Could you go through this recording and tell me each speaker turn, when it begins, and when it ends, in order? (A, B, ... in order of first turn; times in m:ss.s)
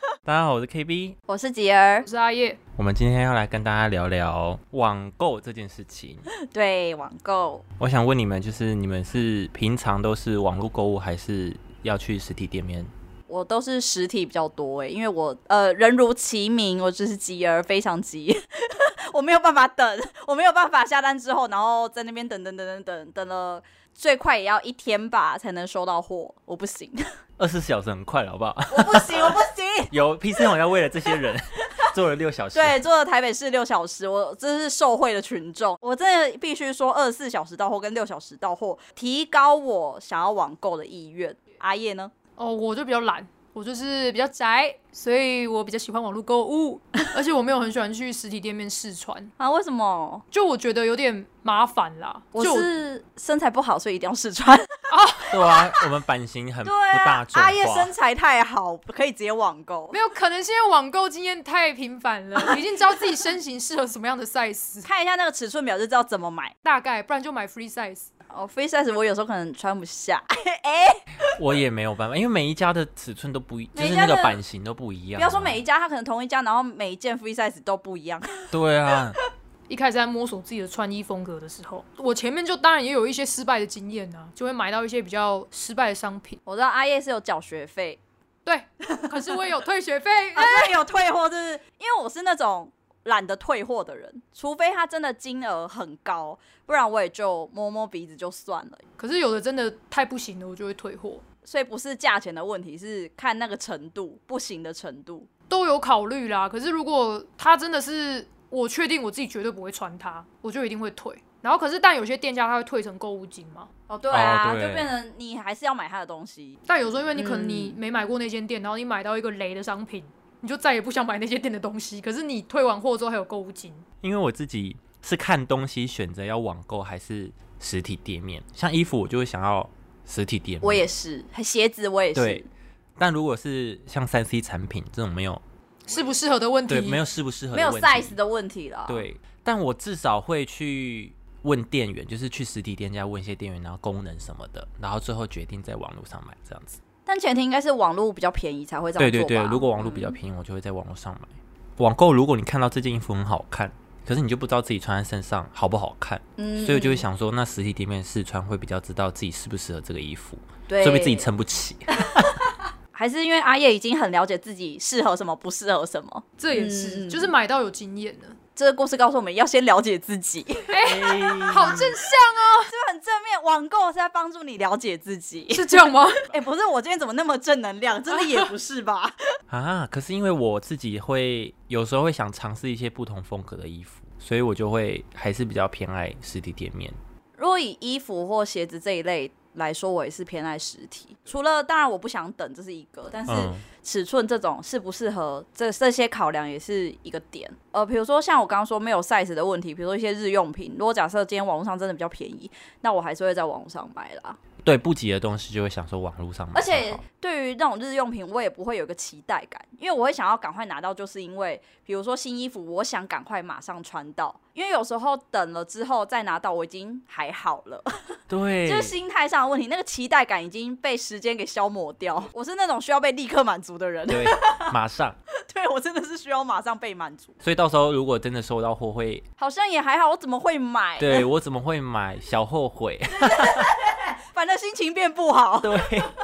0:00.3-0:01.2 A
0:01.3-0:02.1 B
0:02.0-0:02.6 C
0:02.8-0:06.3 A
0:06.4-0:07.6 B
0:07.8-0:12.9 A
0:13.3-0:27.0 B
0:27.4-0:32.8 A
0:28.7-0:29.9 B
0:32.5-0:42.1 B
0:42.4-0:49.3 C
0:49.4-0:50.2 B
0:50.3-0:52.7 C
0:52.3-0:54.8 B
0:54.9-0:55.8 C
0:55.3-0:57.9 A
0:56.6-1:00.0 B
0:59.9-1:04.9 C
1:04.8-1:06.5 B
1:06.6-1:08.1 C
1:08.3-1:11.0 B
1:11.3-1:15.5 A
1:13.8-1:14.4 B
1:15.2-1:18.6 B
1:18.5-1:19.2 A
1:19.7-1:26.4 C
1:26.5-1:28.0 B
1:28.5-1:30.8 C
1:28.9-1:29.4 B
1:30.4-1:38.8 B
1:39.0-1:41.2 C
1:41.4-1:45.3 B
1:45.5-1:53.7 C
1:53.9-1:56.6 B
1:54.1-1:54.9 A
1:56.7-2:03.8 C
1:57.2-1:57.8 B
2:04.0-2:10.9 A
2:10.6-2:12.5 B
2:12.2-2:12.4 A
2:13.0-2:15.4 A
2:15.9-2:17.0 C
2:16.7-2:18.2 A
2:17.5-2:19.0 B
2:18.9-2:26.8 A
2:27.1-2:30.2 B
2:29.0-2:42.4 A
2:36.4-2:37.0 B
2:40.7-2:41.3 B
2:42.9-2:47.3 B
2:46.4-2:48.4 C
2:48.6-2:50.8 B
2:50.7-2:52.7 C
2:50.8-2:51.9 A
2:52.7-2:55.8 B
2:55.5-2:56.3 C
2:56.3-2:59.2 B
2:58.1-2:58.5 C
2:59.5-3:07.0 A
3:07.4-3:24.4 B
3:13.3-3:13.6 A
3:24.6-3:27.0 A
3:26.5-3:44.7 B
3:38.3-3:39.0 A
3:44.1-3:45.2 A
3:45.4-3:47.3 B
3:47.4-3:49.2 A
3:49.4-3:51.3 B
3:51.0-3:53.7 A
3:53.2-3:56.1 B
3:55.6-3:56.1 A